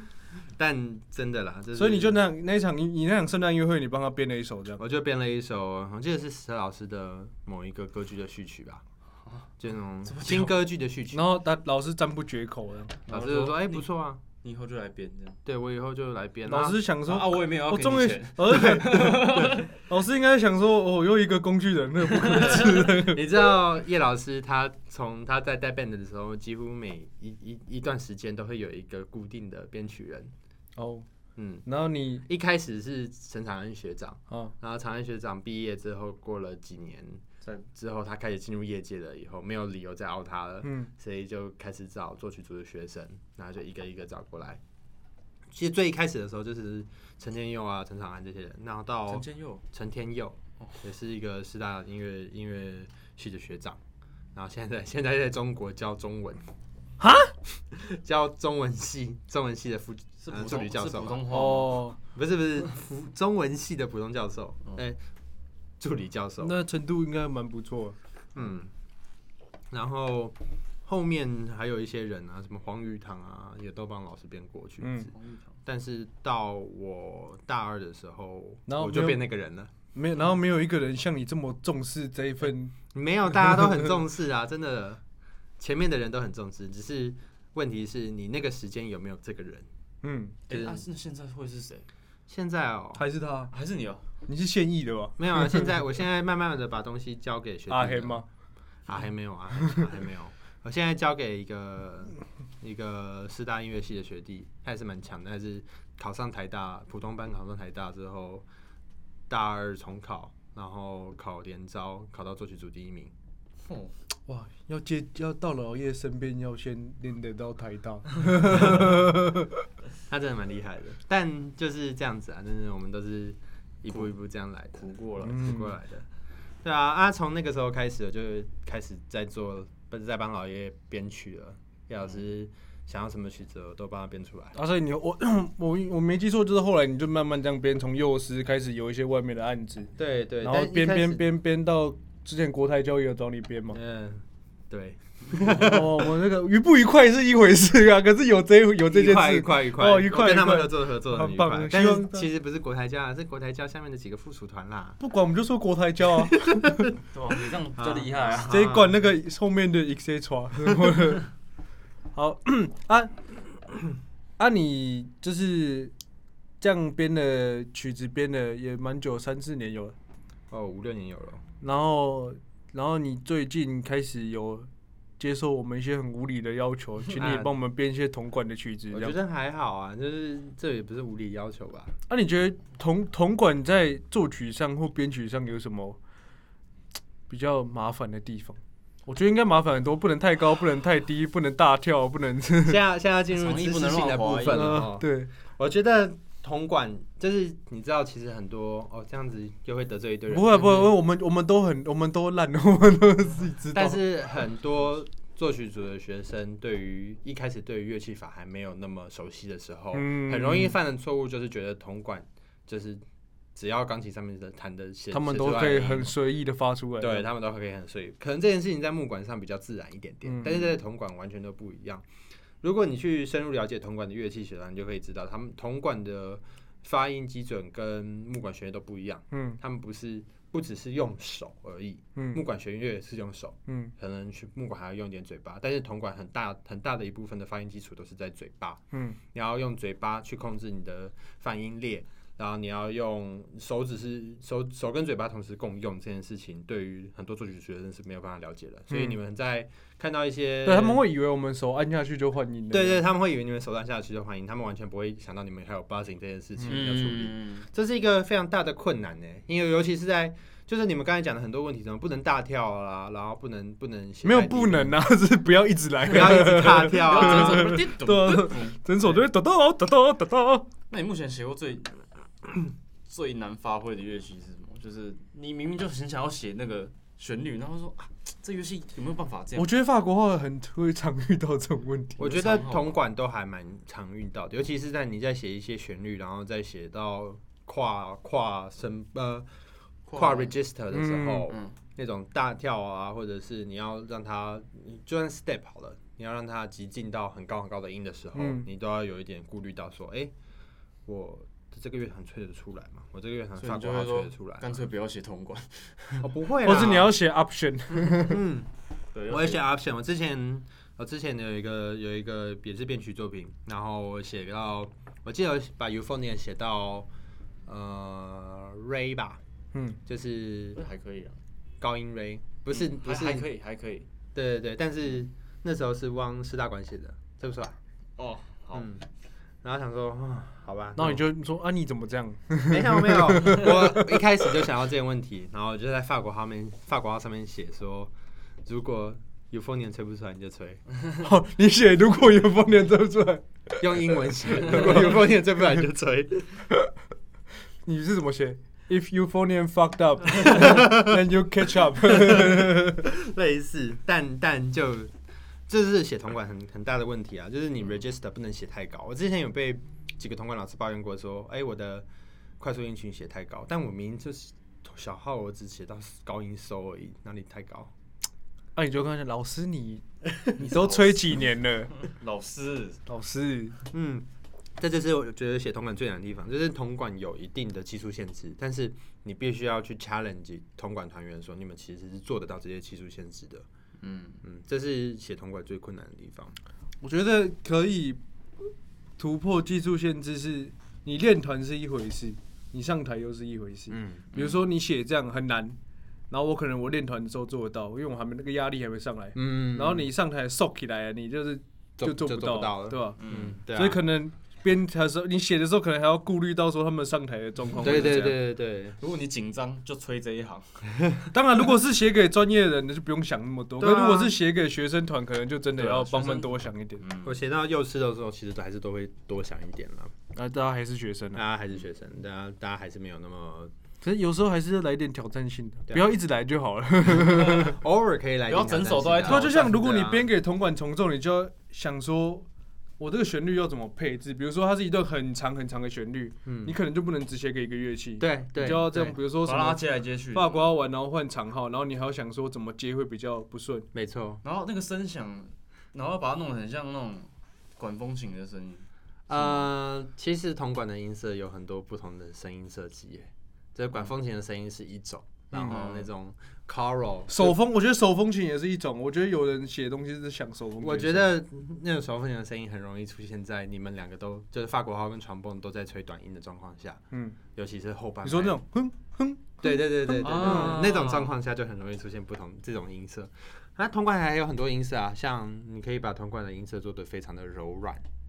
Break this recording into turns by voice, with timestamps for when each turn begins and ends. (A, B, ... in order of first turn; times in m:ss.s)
0:00.6-0:02.2 A
0:01.8-0:04.8 B
0:04.8-0:08.8 A
0:09.6-0:11.3 A
0:10.0-0:10.6 C
0:11.1-0:13.0 B
0:13.1-0:13.9 C
0:13.1-0:14.2 A
0:14.4-0:15.4 C
0:15.4-0:16.8 A
0:16.5-0:23.3 B
0:17.0-0:19.7 C
0:19.3-0:19.6 A
0:22.2-0:22.7 C
0:22.4-0:30.3 A
0:30.8-0:31.1 B
0:31.4-0:31.7 A
0:31.7-0:32.2 B
0:32.2-0:44.6 A
0:40.6-0:40.9 B
0:45.5-0:53.8 A
0:49.1-0:49.6 C
0:54.4-0:56.4 A
0:57.0-0:57.3 B
0:57.7-1:01.3 A
1:00.3-1:01.8 C
1:01.3-1:02.0 B
1:02.1-1:05.0 A
1:05.8-1:06.6 A
1:06.4-1:08.0 B
1:08.4-1:08.7 A
1:09.7-1:10.4 A
1:10.9-1:15.1 A
1:14.8-1:15.1 B
1:15.1-1:15.5 C
1:15.6-1:19.7 A
1:18.7-1:19.2 B
1:19.9-1:22.8 B
1:22.9-1:25.0 A
1:23.4-1:23.7 B
1:25.6-1:29.7 A
1:30.0-1:30.4 B
1:30.5-1:31.9 C
1:30.5-1:30.8 A
1:32.3-1:33.0 A
1:33.0-1:33.5 B
1:33.5-1:34.0 C
1:34.3-1:35.7 B
1:35.2-1:38.2 A
1:37.7-1:38.3 B
1:38.9-1:48.5 A
1:49.3-1:53.1 A
1:53.6-1:53.9 C
1:54.3-1:59.6 B
2:00.1-2:06.1 A
2:04.7-2:05.4 C
2:05.2-2:05.8 B
2:06.6-2:14.6 A
2:14.6-2:23.8 B
2:20.0-2:21.3 A
2:23.7-2:26.0 A
2:25.5-2:32.3 B
2:28.9-2:35.0 A
2:35.0-2:36.8 B
2:36.4-2:37.0 A
2:37.1-2:38.7 C
2:37.8-2:38.9 A
2:38.5-2:41.3 B
2:42.2-2:45.9 B
2:46.6-2:50.0 B
2:50.5-2:51.4 A
2:51.6-2:59.2 B
2:57.2-2:57.5 A
2:58.9-3:01.9 A
3:02.1-3:06.0 B
3:07.3-3:12.8 B
3:12.6-3:21.0 A
3:13.4-3:14.8 C
3:14.5-3:15.3 B
3:20.3-3:24.0 B
3:23.7-3:33.0 A
3:29.9-3:30.8 B
3:33.6-3:36.1 A
3:35.1-3:37.3 B
3:37.0-3:42.0 A
3:40.3-3:40.6 B
3:42.6-3:58.8 A
3:49.3-3:49.6 B
3:52.2-3:52.4 B
3:53.7-3:53.9 B
3:58.9-3:59.2 B
3:59.3-4:11.0 A
4:08.9-4:09.2 B
4:10.6-4:13.1 B
4:12.7-4:25.0 A
4:16.6-4:17.7 C
4:24.2-4:30.7 B
4:26.1-4:27.8 A
4:26.7-4:29.2 C
4:30.9-4:32.0 C
4:33.1-4:39.7 C
4:39.6-4:42.3 B
4:42.2-4:49.5 A
4:42.2-4:43.0 C
4:50.1-4:50.6 C
4:50.1-5:00.3 A
4:50.9-4:51.5 B
4:51.5-4:51.8 C
4:58.4-4:58.7 B
5:01.1-5:04.8 A
5:03.6-5:06.3 C
5:06.2-5:07.1 A
5:06.6-5:08.4 B
5:08.2-5:08.7 A
5:09.1-5:09.6 C
5:09.3-5:17.1 A
5:17.7-5:19.4 A
5:20.1-5:20.8 A
5:20.8-5:21.4 C
5:21.8-5:23.5 A
5:22.7-5:24.1 C
5:24.4-5:27.8 A
5:28.2-5:28.9 C
5:28.7-5:29.1 A
5:29.6-5:31.2 A
5:31.0-5:34.2 B
5:32.7-5:38.1 A
5:38.7-5:40.8 A
5:41.2-5:45.3 B
5:43.8-5:46.6 A
5:47.8-5:53.0 B
5:50.5-5:51.2 A
5:52.0-5:55.1 A
5:55.7-6:02.1 A
6:02.6-6:07.9 A
6:08.8-6:10.0 B
6:10.6-6:11.9 B
6:10.6-6:11.4 C
6:12.0-6:13.0 C
6:13.1-6:13.8 B
6:13.9-6:14.3 A
6:14.8-6:23.7 A
6:24.0-6:24.4 C
6:24.4-6:26.5 A
6:27.0-6:28.2 B
6:29.2-6:35.8 B
6:33.9-6:34.3 A
6:34.3-6:34.6 C
6:36.3-6:43.2 B
6:39.4-6:40.1 A
6:42.0-6:44.0 A
6:43.2-6:43.6 C
6:43.7-6:48.3 B
6:47.8-6:48.4 C
6:47.8-6:49.0 A
6:49.0-6:50.8 C
6:51.3-6:57.0 B
6:53.8-6:54.3 A
6:55.8-6:57.4 C
6:57.2-7:00.1 A
7:00.3-7:01.4 B
7:01.3-7:03.7 A
7:04.0-7:07.8 B
7:07.1-7:10.3 A
7:08.5-7:09.8 C
7:09.3-7:12.5 B
7:13.0-7:23.9 B
7:16.4-7:16.8 A
7:18.2-7:19.2 A
7:19.4-7:20.7 C
7:23.9-7:24.4 A
7:24.4-7:29.7 C
7:29.3-7:37.6 A
7:35.5-7:36.1 C
7:37.3-7:41.3 B
7:40.8-7:47.0 A
7:47.1-7:47.4 B
7:47.6-7:48.6 A
7:48.2-7:50.8 B
7:49.6-7:58.0 A
7:50.2-7:51.4 C